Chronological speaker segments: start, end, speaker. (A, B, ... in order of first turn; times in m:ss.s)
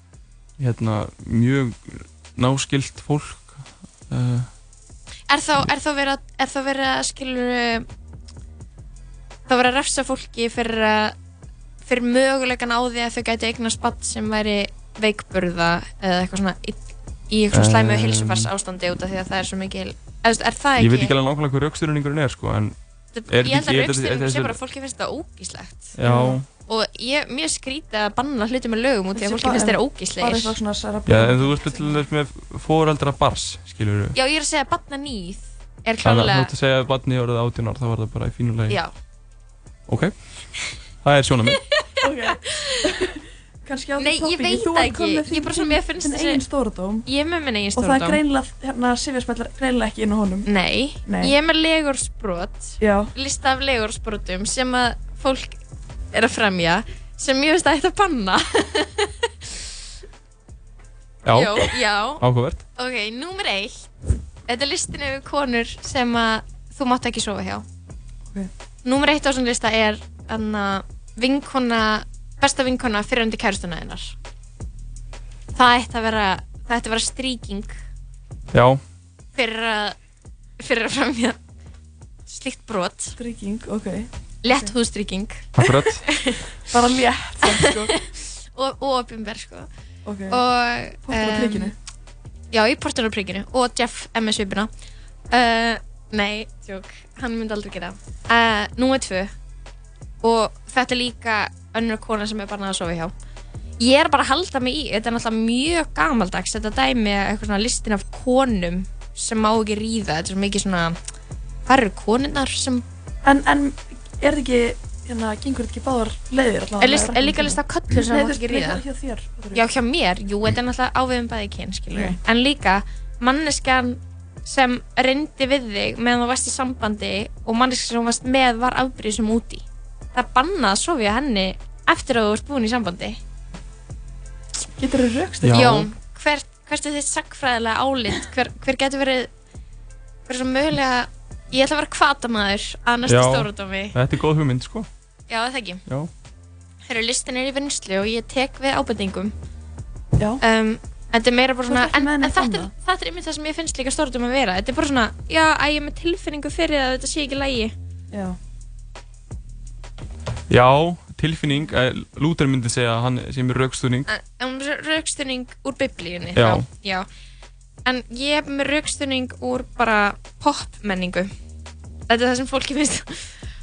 0:00.6-0:04.5 A
0:05.3-0:07.9 B
0:09.5-0:11.2 B
0:11.8-0:21.1 B
0:17.5-0:18.5 A
0:20.8-0:22.8 A
0:23.2-0:26.0 B
0:23.3-0:24.6 A
0:26.0-0:26.5 A
0:26.0-0:26.4 C
0:26.7-0:30.6 B
0:29.2-0:31.9 C
0:31.1-0:34.2 A
0:34.2-0:36.5 B
0:36.0-0:38.8 A
0:39.9-0:40.1 A
0:41.0-0:41.6 A
0:41.7-0:42.9 B
0:42.0-0:47.1 C
0:44.0-0:46.4 B
0:47.1-0:48.2 B
0:47.8-0:50.5 C
0:50.5-0:55.6 B
0:51.0-0:51.3 C
0:52.8-0:53.1 C
0:56.1-0:59.3 B
1:01.2-1:02.6 A
1:01.3-1:02.2 B
1:02.8-1:03.9 B
1:04.5-1:07.7 B
1:08.8-1:14.2 B
1:15.6-1:17.8 B
1:18.5-1:18.8 A
1:19.4-1:20.0 B
1:20.6-1:21.4 B
1:22.3-1:23.2 B
1:23.2-1:24.7 C
1:24.4-1:26.6 B
1:25.6-1:26.0 A
1:26.7-1:28.0 C
1:27.5-1:29.7 B
1:30.0-1:30.4 C
1:30.3-1:31.7 B
1:31.0-1:31.8 C
1:32.5-1:34.7 B
1:35.3-1:39.3 B
1:40.2-1:43.1 B
1:43.8-1:51.0 B
1:51.7-1:52.8 B
1:53.2-1:59.6 C
1:56.8-1:58.8 B
1:59.5-2:13.2 B
2:01.9-2:02.2 C
2:14.8-2:15.7 C
2:15.4-2:15.9 A
2:15.5-2:19.3 B
2:20.3-2:24.0 B
2:23.0-2:24.9 A
2:25.3-2:25.8 B
2:26.9-2:29.4 B
2:30.4-2:37.7 B
2:31.7-2:32.7 C
2:38.1-2:38.4 C
2:40.5-2:44.1 A
2:44.1-2:47.1 B
2:46.4-2:46.6 A
2:47.9-2:51.3 B
2:52.1-2:53.4 B